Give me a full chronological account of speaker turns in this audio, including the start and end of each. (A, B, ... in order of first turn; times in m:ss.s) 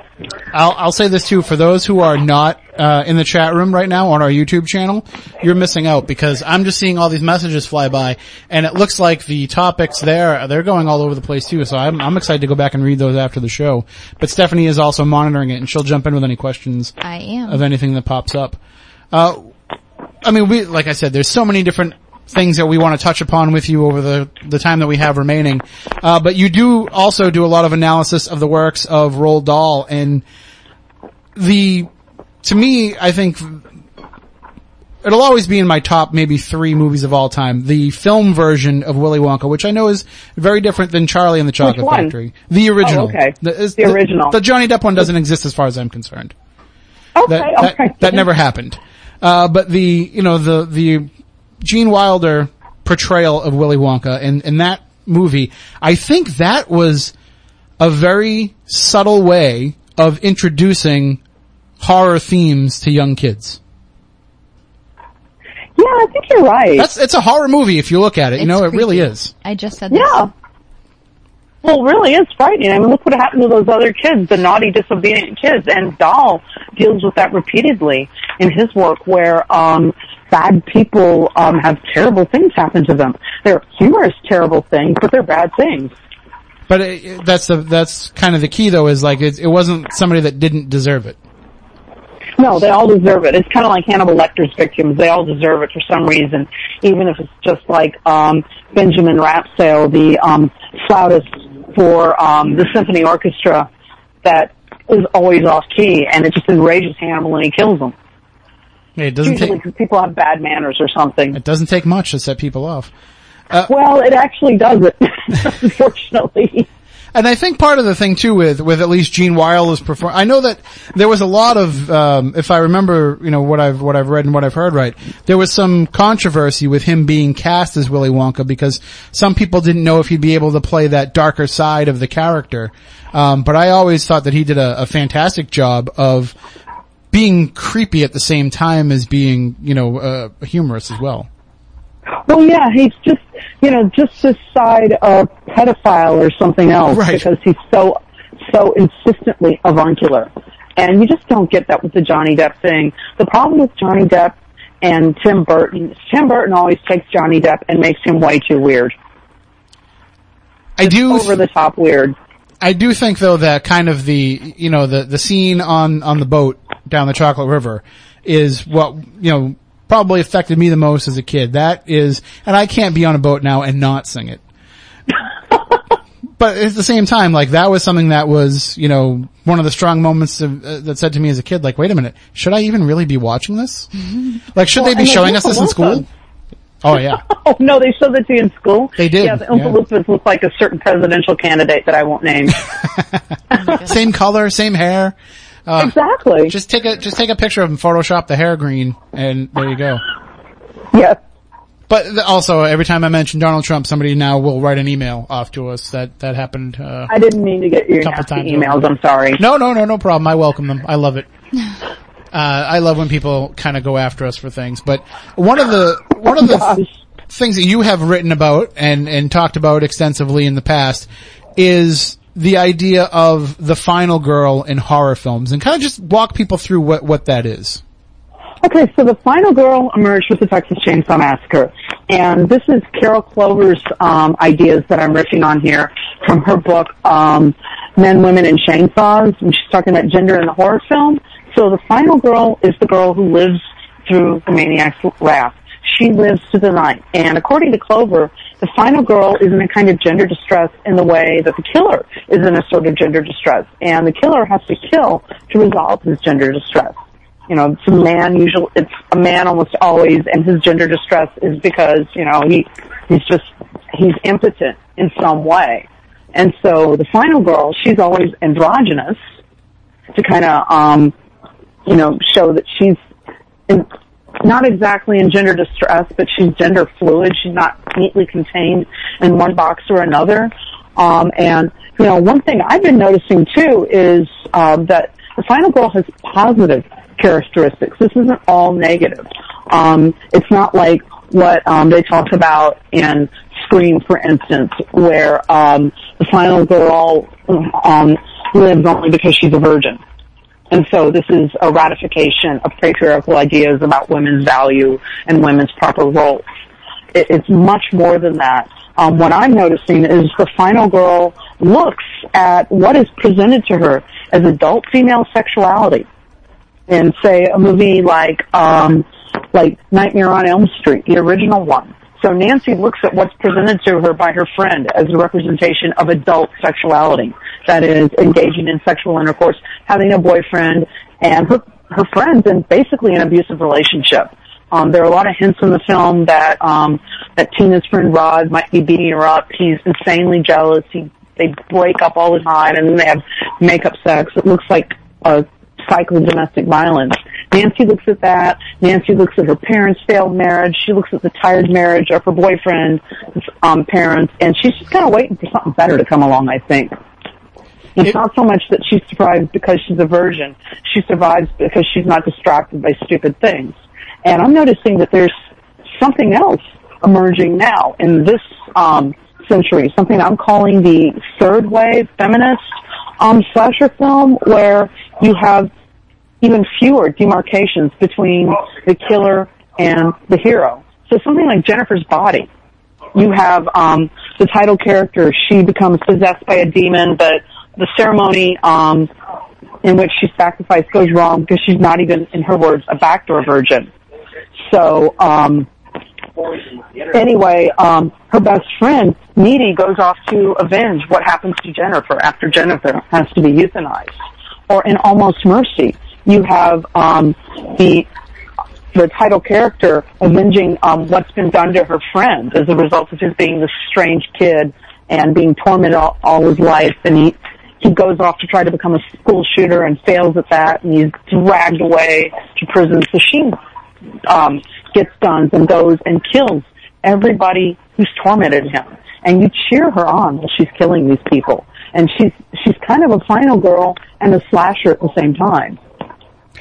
0:00.5-0:17.0 A
0:17.0-0:17.6 B
0:17.5-0:18.6 A
0:19.1-0:19.5 A
0:20.2-0:30.2 A
0:31.4-0:31.9 A
0:32.4-0:33.6 A
0:35.0-0:46.3 A
0:41.6-0:42.1 C
0:42.8-0:44.4 C
0:47.2-0:48.2 C
0:47.3-0:51.1 A
0:51.6-0:57.1 A
0:57.8-1:01.2 A
1:01.8-1:03.6 A
1:05.8-1:06.9 C
1:06.8-1:09.3 A
1:08.4-1:10.2 B
1:09.9-1:10.3 C
1:11.6-1:25.9 C
1:26.7-1:31.2 A
1:32.4-1:43.7 C
1:44.2-1:47.9 C
1:49.0-1:49.6 A
1:49.2-1:51.4 C
1:51.3-1:52.9 A
1:53.7-1:56.6 C
1:57.1-2:16.3 A
2:17.1-2:21.3 A
2:22.3-2:38.9 C
2:26.9-2:27.2 A
2:40.8-2:41.4 A
2:40.8-2:42.2 C
2:42.6-2:54.4 A
2:56.4-3:03.9 A
3:04.5-3:06.0 A
3:04.7-3:06.0 C
3:06.8-3:07.2 A
3:07.2-3:12.6 C
3:09.0-3:09.8 A
3:13.7-3:15.1 A
3:15.7-3:15.9 A
3:15.8-3:16.5 C
3:16.5-3:20.0 A
3:20.9-3:21.2 C
3:21.9-3:27.1 A
3:27.1-3:29.4 C
3:28.0-3:28.8 A
3:29.4-3:31.3 A
3:32.3-3:47.8 A
3:36.4-3:36.8 C
3:48.6-4:16.9 C
4:17.5-4:29.2 C
4:30.1-4:31.1 C
4:31.8-4:33.0 C
4:34.4-5:00.0 C
5:00.7-5:06.4 C
5:07.1-5:16.1 C
5:16.9-5:53.0 C
5:53.6-5:56.9 C
5:58.0-6:05.3 C
6:05.9-6:12.6 C
6:13.2-6:15.7 C
6:16.4-6:22.5 C
6:23.1-6:29.1 C
6:29.8-6:33.9 C
6:34.6-6:35.7 C
6:37.1-6:44.1 C
6:44.7-6:48.1 C
6:48.9-7:03.6 C
7:04.2-7:15.8 C